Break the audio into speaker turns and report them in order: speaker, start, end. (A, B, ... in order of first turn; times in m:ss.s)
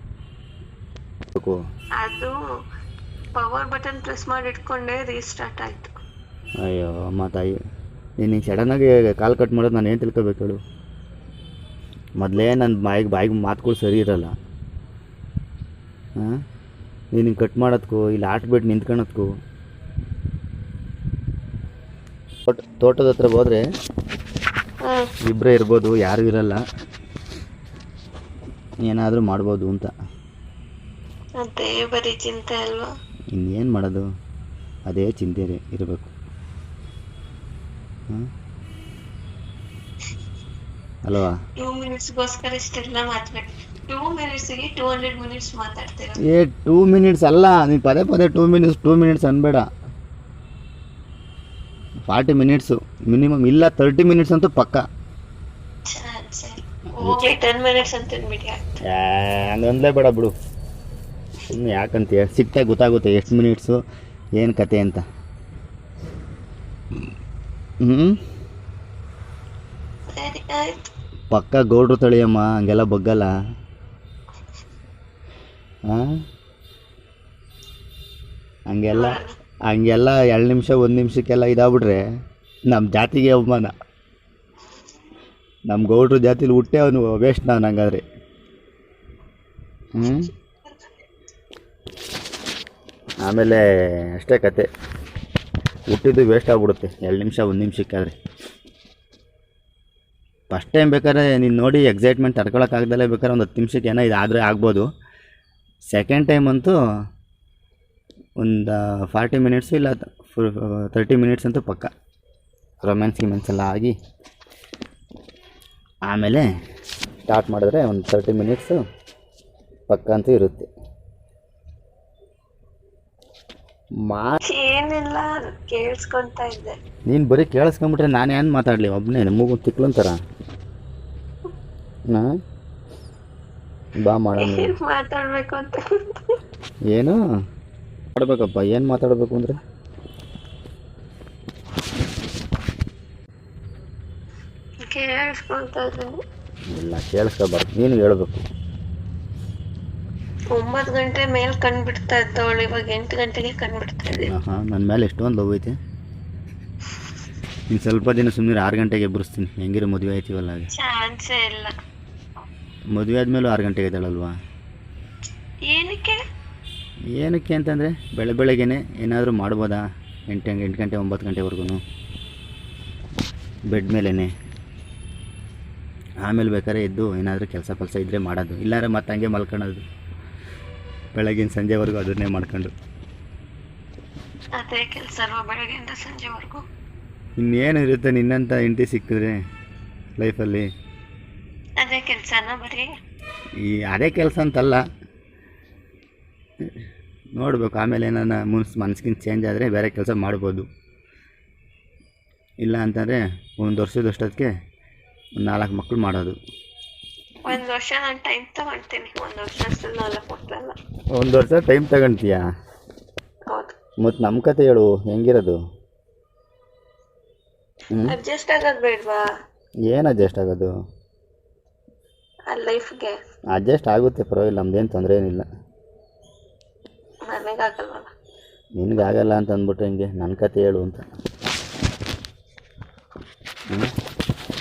0:02.0-0:02.4 A
0:03.4-0:05.9 A
0:06.6-0:07.6 B
0:08.2-0:10.6 B
0:12.2-0:14.3 B
0:17.1-0:19.3 B
0:22.5-0:23.6 B
0:24.8-0:25.1 A
0:25.3-0:26.6 B
0:28.8-0:29.9 B
0:31.4-0:32.9 A
0:33.3-0:34.0 B
0:34.9-0:36.1 B
0:41.0-0:41.4 B
0:41.6-0:46.2 A
0:46.2-0:49.6 B
0:52.1-0:54.8 B
0:55.9-0:58.8 A
0:58.9-1:00.3 B
1:01.5-1:03.8 B
1:04.4-1:05.0 B
1:07.8-1:08.2 B
1:10.1-1:10.9 A
1:11.3-1:13.3 B
1:18.7-1:19.2 B
1:18.9-1:19.3 A
1:19.7-1:22.0 B
1:22.7-1:23.7 B
1:25.7-1:28.0 B
1:30.0-1:30.3 B
1:33.2-1:33.6 B
1:34.2-1:34.7 B
1:35.9-1:38.2 B
1:40.5-1:44.9 B
1:45.9-1:46.7 B
1:48.4-1:51.9 B
1:52.8-1:53.9 B
1:56.1-1:56.5 B
1:57.2-1:58.8 B
1:59.9-2:00.7 B
2:04.1-2:04.4 B
2:04.5-2:06.7 A
2:07.1-2:10.2 B
2:14.0-2:14.7 B
2:14.4-2:16.4 A
2:16.9-2:17.2 B
2:18.2-2:19.6 B
2:24.9-2:26.2 A
2:26.7-2:28.4 B
2:30.5-2:34.3 A
2:34.3-2:35.7 B
2:37.7-2:40.7 B
2:40.7-2:41.7 A
2:42.9-2:44.3 B
2:45.6-2:46.2 A
2:47.2-2:51.8 B
2:53.7-2:54.3 B
2:56.2-2:59.8 B
3:01.1-3:02.7 B
3:04.6-3:06.6 A
3:07.4-3:09.4 B
3:10.2-3:10.6 B
3:11.8-3:12.9 A
3:13.6-3:14.8 B
3:17.4-3:20.6 B
3:22.6-3:24.5 B
3:25.4-3:26.4 B
3:27.4-3:30.8 A
3:31.2-3:32.4 B
3:33.5-3:33.8 A
3:34.0-3:35.6 B
3:38.1-3:39.2 A
3:39.9-3:40.7 B
3:42.5-3:43.2 A
3:43.5-3:45.4 B
3:47.3-3:48.1 A
3:48.8-3:51.0 B